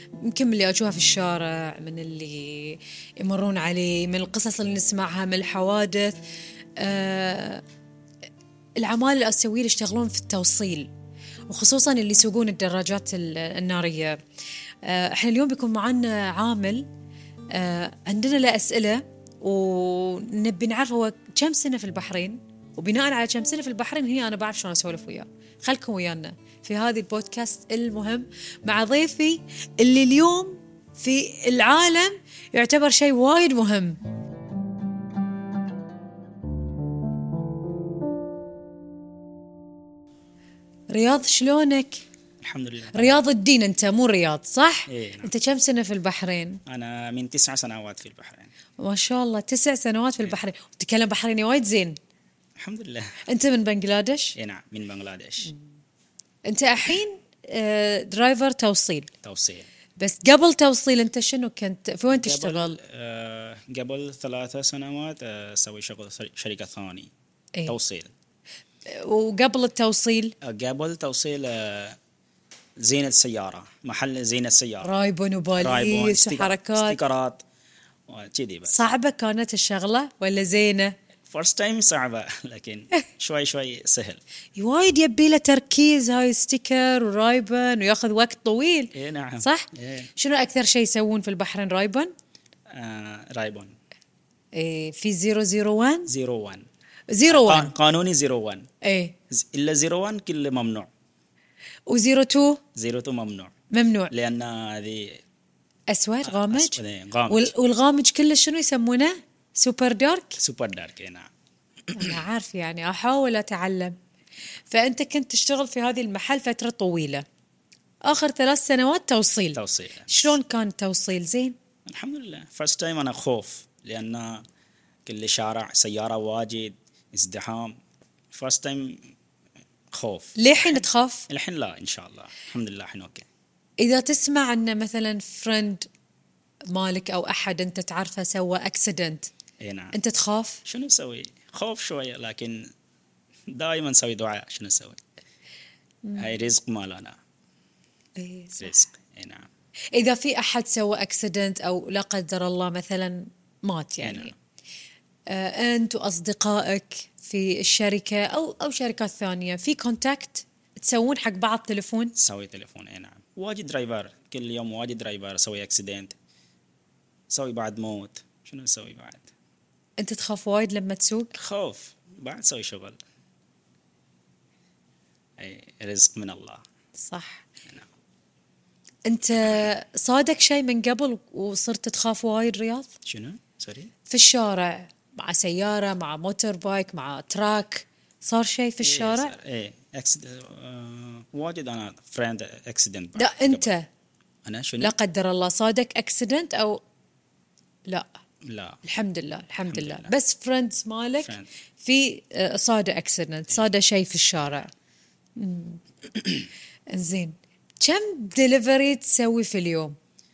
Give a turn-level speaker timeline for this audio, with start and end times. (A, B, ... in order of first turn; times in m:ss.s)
0:00.2-0:06.2 A
0:06.8-0:07.6 A
0:08.8-0:10.9 A
0:11.5-0:14.2 A
0:14.8-0:16.9 A
0:17.5-0:34.0 A
0:40.9-0:42.0 A
0:42.4-0:43.2 B
0:42.9-0:46.6 A
0:44.9-0:45.3 B
0:46.7-0:48.5 B
0:48.8-0:52.0 A
0:52.6-0:53.2 B
0:53.3-0:54.3 A
0:54.4-0:55.5 B
0:56.4-0:59.1 A
0:59.2-0:59.7 B
1:00.0-1:02.8 A
1:02.1-1:07.1 B
1:07.7-1:08.1 B
1:08.9-1:10.3 A
1:10.4-1:12.0 B
1:12.8-1:14.9 B
1:14.8-1:17.0 A
1:15.6-1:17.4 B
1:18.1-1:18.8 B
1:18.7-1:20.9 A
1:21.3-1:24.2 B
1:24.6-1:32.1 A
1:28.9-1:30.1 B
1:32.7-1:33.7 B
1:34.5-1:36.1 A
1:36.1-1:36.6 B
1:37.1-1:37.7 A
1:37.3-1:38.7 B
1:38.8-1:39.1 A
1:39.3-1:40.9 B
1:41.9-1:42.6 A
1:42.8-1:43.5 B
1:43.7-1:44.1 A
1:44.1-1:45.2 B
1:45.9-1:50.4 A
1:46.2-1:47.5 B
1:50.4-1:51.3 B
1:51.9-1:52.2 B
1:51.9-1:54.0 A
1:54.7-1:57.2 A
1:58.0-2:01.6 A
1:59.5-2:00.4 B
2:01.9-2:04.4 B
2:05.0-2:07.8 B
2:08.3-2:09.0 B
2:09.9-2:13.2 B
2:10.4-2:11.3 A
2:13.8-2:15.9 A
2:16.7-2:19.3 A
2:19.6-2:20.0 B
2:19.9-2:20.6 A
2:20.6-2:22.6 B
2:23.5-2:25.0 B
2:26.2-2:27.2 B
2:28.2-2:28.9 A
2:28.6-2:29.5 B
2:29.9-2:34.3 A
2:34.0-2:34.3 B
2:35.3-2:42.1 A
2:42.2-2:46.2 B
2:47.3-2:49.3 B
2:50.0-2:51.4 A
2:51.4-2:53.0 B
2:55.4-2:56.6 B
2:57.0-2:57.4 A
2:59.1-3:02.9 A
3:03.0-3:03.9 B
3:04.1-3:09.4 A
3:08.8-3:13.7 B
3:13.2-3:13.9 A
3:14.4-3:14.9 B
3:14.8-3:16.8 A
3:18.4-3:18.8 B
3:18.8-3:24.7 A
3:19.7-3:20.1 B
3:21.2-3:21.5 B
3:25.4-3:25.8 A
3:26.9-3:29.9 A